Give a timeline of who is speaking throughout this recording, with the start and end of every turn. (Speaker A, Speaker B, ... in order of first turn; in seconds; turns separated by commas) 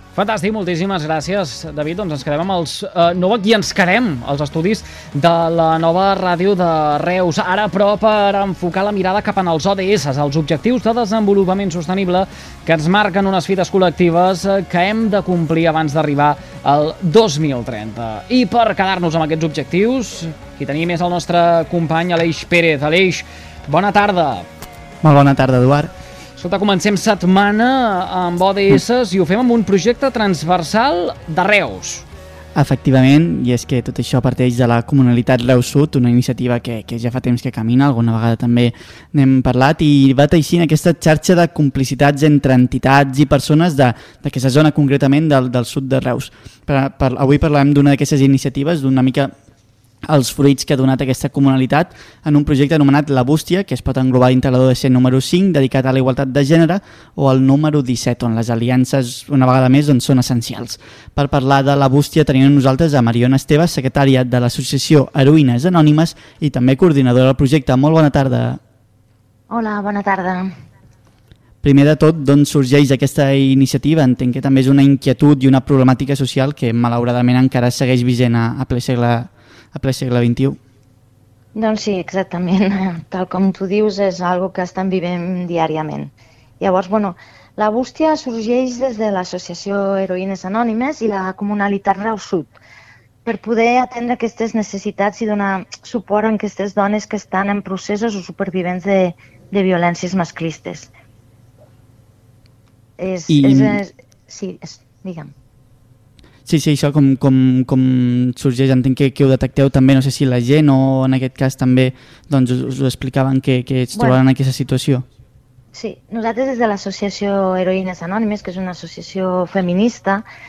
Speaker A: 0.1-24.4, Speaker B: 25.0-25.9, Speaker A: 26.4-32.0, Speaker B: 32.5-49.3, Speaker B: 50.1-68.6, Speaker C: 69.5-70.5, Speaker B: 71.6-80.6, Speaker C: 81.5-92.6, Speaker C: 93.2-100.9, Speaker C: 103.0-105.3, Speaker B: 103.3-103.8, Speaker B: 106.5-115.0, Speaker C: 113.9-114.2, Speaker C: 115.7-120.2